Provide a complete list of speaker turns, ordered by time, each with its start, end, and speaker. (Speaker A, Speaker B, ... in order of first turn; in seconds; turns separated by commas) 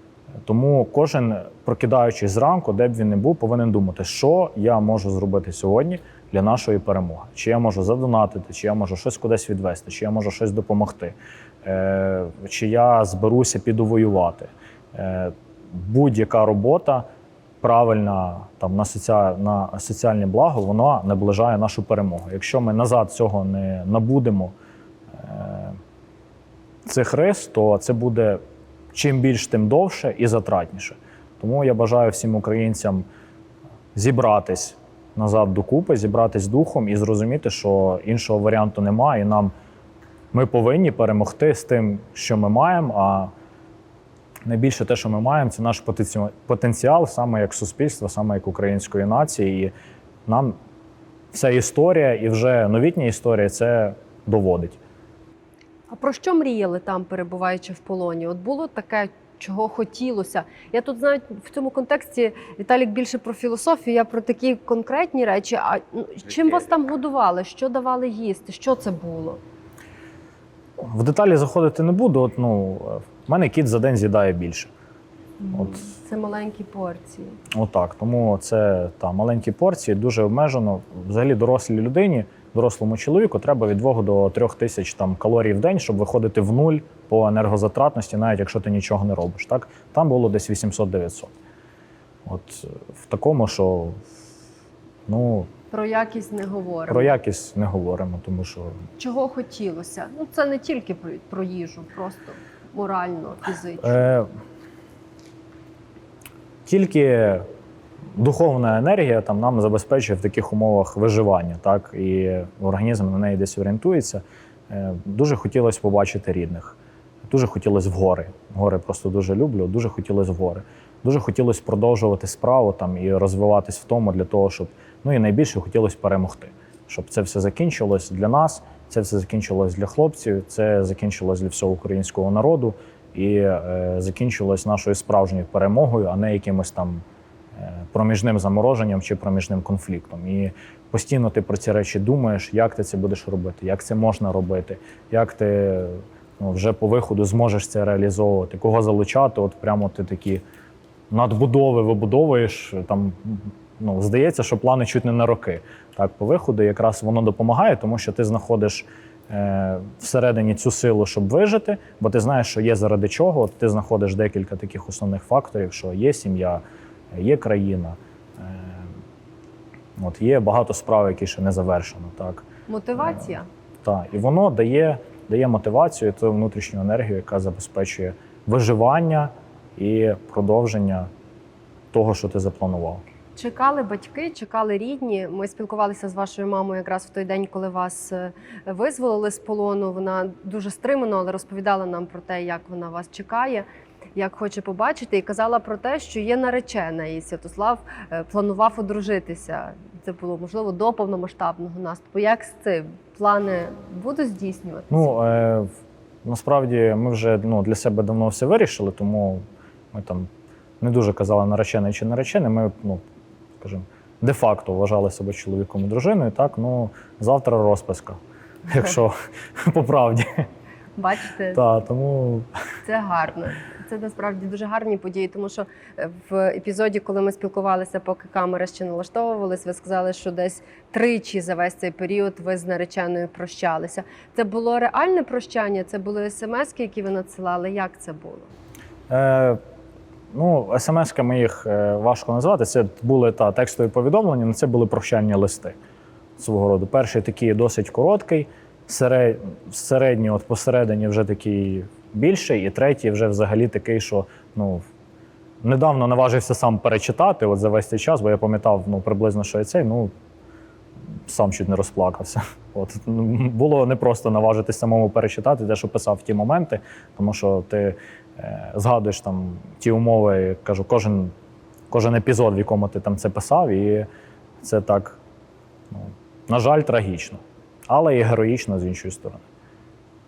Speaker A: 0.4-17.1, Speaker A: 17.6-24.5, Speaker A: 25.1-25.8, Speaker A: 26.8-28.4, Speaker A: 28.9-33.0, Speaker A: 33.9-39.5, Speaker A: 40.3-43.3, Speaker A: 44.5-49.7, Speaker A: 50.2-50.5, Speaker A: 51.3-54.8, Speaker B: 55.9-69.4, Speaker A: 70.8-74.7, Speaker B: 75.4-77.4, Speaker A: 75.5-75.8, Speaker A: 77.5-91.3, Speaker A: 92.2-94.0, Speaker A: 95.1-95.5, Speaker B: 95.7-97.1, Speaker A: 96.9-98.8, Speaker B: 99.0-104.1, Speaker A: 103.8-104.3, Speaker A: 106.7-107.5, Speaker A: 108.1-116.8, Speaker A: 117.3-137.0, Speaker A: 137.6-150.4, Speaker A: 151.1-168.9, Speaker A: 170.0-172.4, Speaker B: 172.7-173.5, Speaker A: 173.8-181.1, Speaker A: 181.9-183.0, Speaker B: 183.3-205.1, Speaker A: 204.9-205.7, Speaker A: 206.2-210.3, Speaker A: 210.8-213.0, Speaker A: 213.6-220.5, Speaker B: 220.9-221.6, Speaker A: 221.5-222.5, Speaker B: 222.8-238.5, Speaker A: 239.1-239.6, Speaker A: 240.3-245.8, Speaker A: 246.4-254.8, Speaker A: 255.6-260.1, Speaker A: 261.3-271.3, Speaker A: 271.9-274.1, Speaker A: 274.6-275.2, Speaker A: 275.9-279.4